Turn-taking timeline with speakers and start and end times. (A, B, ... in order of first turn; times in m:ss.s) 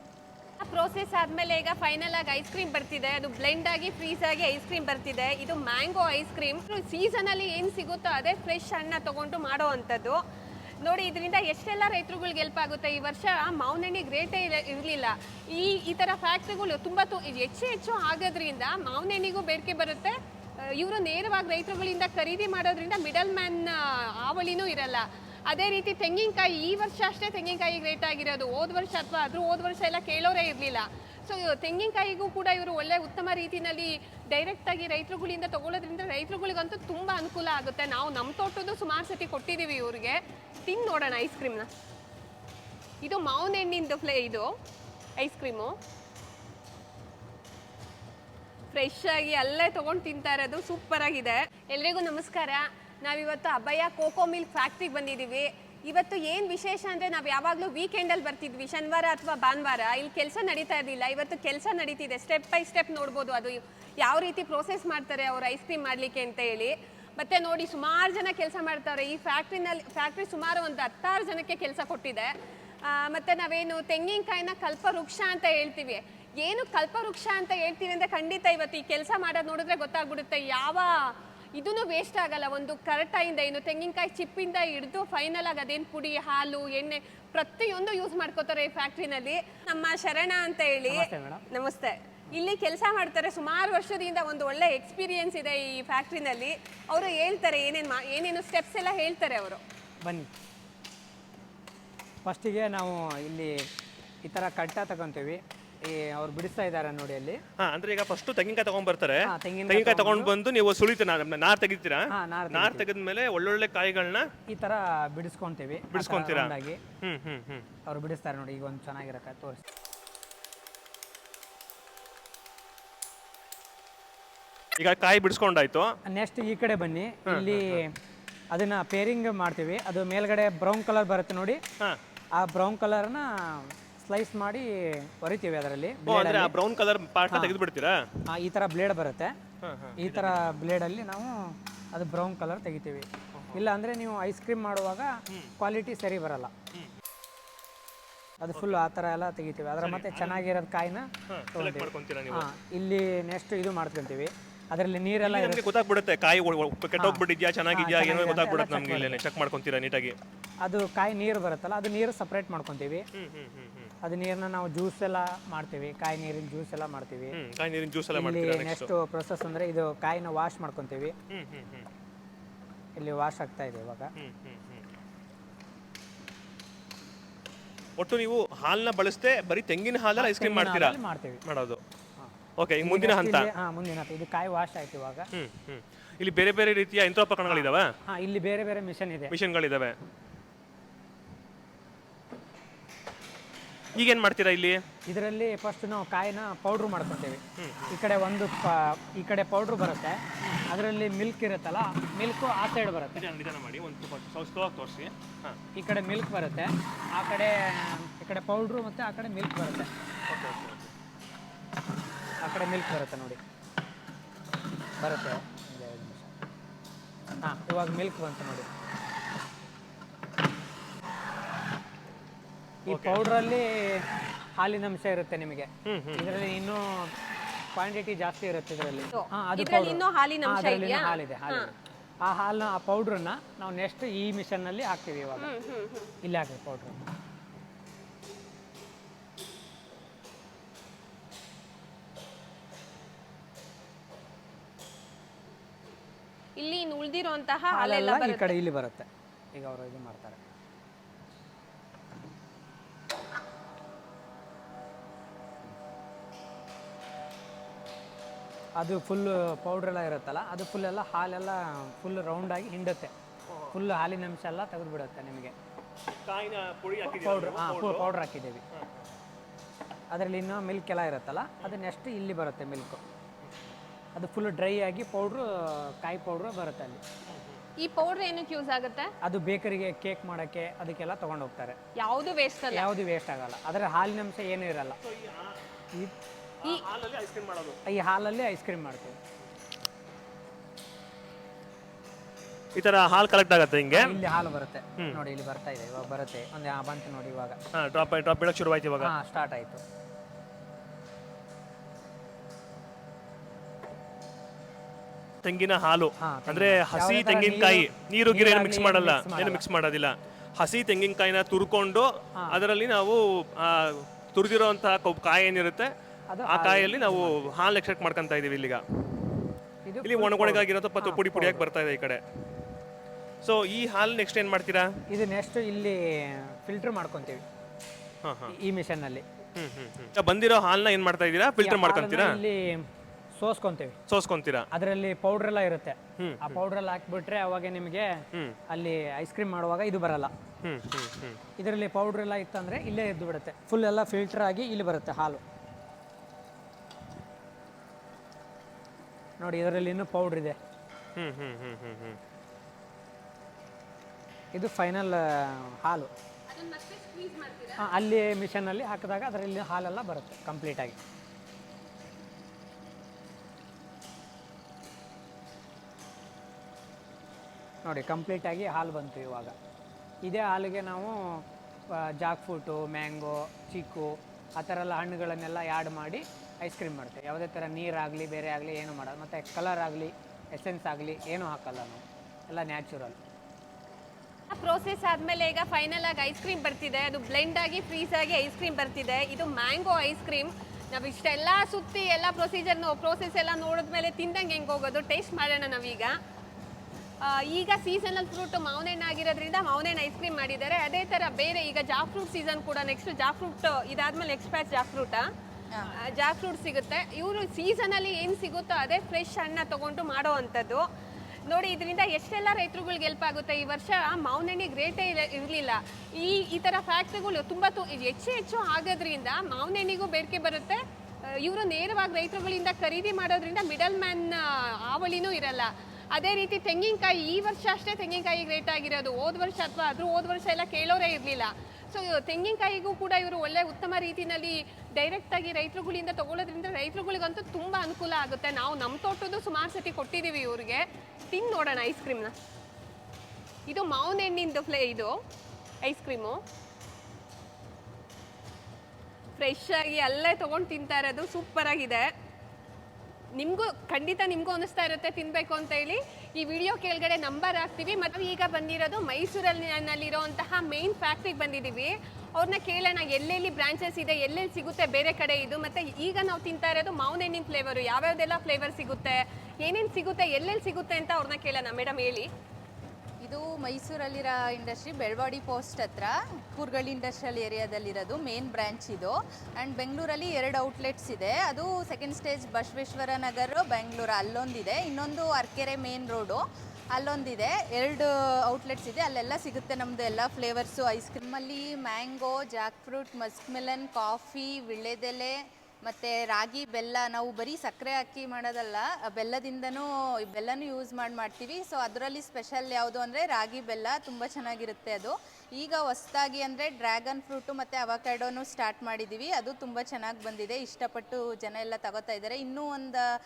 0:00.6-0:10.2 A
0:10.8-0:41.7 A
0:43.0-0:44.5 A
0:45.2-0:45.8 A
0:48.7-1:39.6 A
1:30.9-1:31.4 B
1:40.0-1:40.3 B
1:42.2-1:43.6 B
1:44.2-1:47.4 B
1:47.6-1:54.3 C
1:49.2-1:50.3 B
1:52.1-1:52.9 B
1:54.5-1:56.8 B
1:55.9-1:57.6 C
1:57.8-1:59.6 B
2:04.8-2:05.9 C
2:06.1-2:08.0 B
2:07.3-2:07.8 C
2:08.5-2:11.6 B
2:12.4-2:16.5 B
2:16.0-2:18.0 C
2:17.3-2:17.6 B
2:18.3-2:19.3 B
2:19.6-2:20.6 C
2:20.0-2:26.5 B
2:23.3-2:23.6 C
2:28.4-2:35.6 B
2:29.8-2:30.4 C
2:31.3-2:32.5 C
2:35.2-2:40.2 C
2:37.0-2:39.2 B
2:40.6-2:43.0 B
2:43.1-2:43.9 C
2:44.0-2:47.4 B
2:47.3-2:48.9 C
2:48.1-2:51.1 B
2:51.3-2:51.9 C
2:53.0-2:54.1 B
2:54.2-2:54.8 C
2:58.0-3:01.8 C
3:00.2-3:01.4 B
3:02.2-3:05.3 B
3:02.6-3:03.5 C
3:05.3-3:07.9 C
3:07.5-3:09.3 B
3:09.3-3:09.9 C
3:13.9-3:14.8 C
3:15.1-3:23.2 B
3:17.6-3:17.9 C
3:23.1-3:25.6 C
3:25.8-3:29.9 B
3:30.3-3:30.9 C
3:32.4-3:33.4 B
3:35.0-3:36.3 B
3:37.4-3:38.7 B
3:42.9-3:44.1 B
3:42.9-3:43.2 C
3:44.6-3:47.1 B
3:45.8-3:46.3 C
3:47.8-3:55.5 B
3:49.1-3:51.7 A
3:55.4-3:56.1 A
3:56.2-3:57.0 B
4:06.6-4:08.6 A
4:07.7-4:10.4 B
4:18.8-4:23.1 B
4:23.7-4:25.5 B
4:26.0-4:28.1 C
4:27.0-4:28.6 B
4:28.7-4:29.0 C
4:30.1-4:33.0 B
4:34.2-4:37.0 B
4:37.3-4:37.6 C
4:37.8-4:39.1 A
4:39.2-4:41.8 B
4:42.0-4:42.9 A
4:42.7-4:45.0 B
4:45.0-4:45.6 C
4:46.6-4:47.8 C
4:47.8-4:49.2 B
4:52.8-4:54.1 C
4:53.9-4:57.6 B
4:57.7-4:59.1 C
4:59.0-4:59.8 B
5:05.4-5:15.9 C
5:06.2-5:09.6 B
5:16.3-5:17.5 B
5:16.5-5:18.8 C
5:19.8-5:21.7 B
5:20.0-5:22.2 C
5:23.4-5:24.9 C
5:25.1-5:27.4 B
5:28.2-5:28.5 C
5:28.5-5:29.2 B
5:29.6-5:32.4 C
5:31.6-5:34.0 B
5:34.1-5:34.7 C
5:34.7-5:40.3 B
5:36.2-5:36.6 C
5:40.6-5:41.4 C
5:41.6-5:45.4 B
5:49.4-5:50.6 B
5:51.2-5:52.2 C
5:54.5-5:56.1 B
5:56.5-5:57.8 A
5:57.8-6:01.0 B
6:07.8-6:09.5 B
6:10.2-6:23.2 B
6:24.5-6:36.1 A
6:37.2-6:45.2 A
6:46.1-6:50.8 A
6:51.5-7:22.3 A
7:23.7-7:25.1 A
7:25.8-7:26.4 A
7:29.4-7:32.1 A
7:33.3-7:52.3 A
7:53.2-8:06.4 D
8:06.9-8:33.1 D